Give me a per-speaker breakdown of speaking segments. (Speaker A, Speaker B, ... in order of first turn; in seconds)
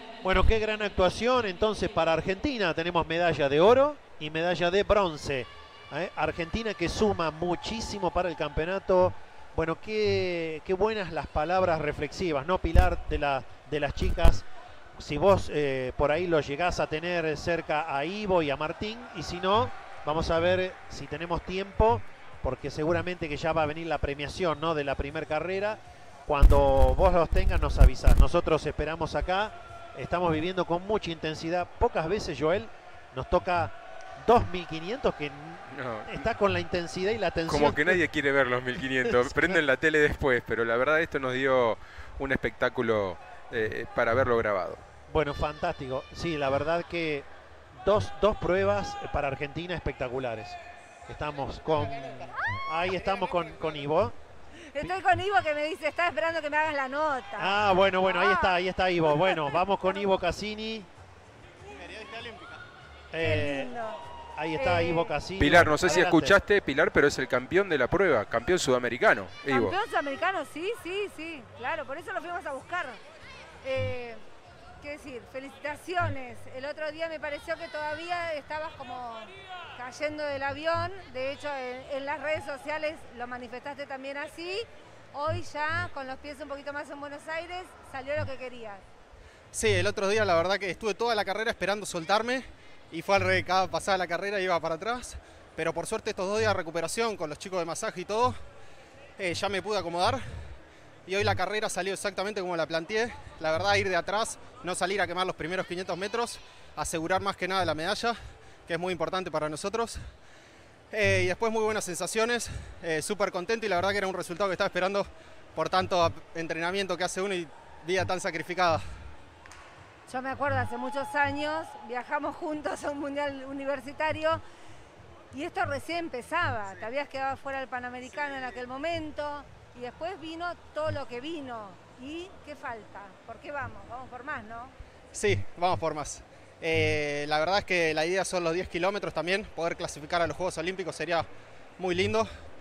Speaker A: 0.2-38.0, 39.1-39.6, 45.1-50.6, 51.1-54.1, 57.4-60.9, 63.1-63.7, 64.3-66.4
Speaker B: 35.7-36.3, 37.5-44.8, 65.4-69.8
Speaker C: 54.7-58.6, 59.1-59.6, 63.2-64.0, 64.5-65.2, 69.5-73.0, 73.6-74.2, 74.8-88.8, 120.1-124.4, 125.3-134.7
Speaker D: 61.9-62.6, 89.5-98.4, 99.2-100.2, 101.1-108.2, 108.7-110.0, 110.9-118.8, 135.1-141.3, 141.8-142.3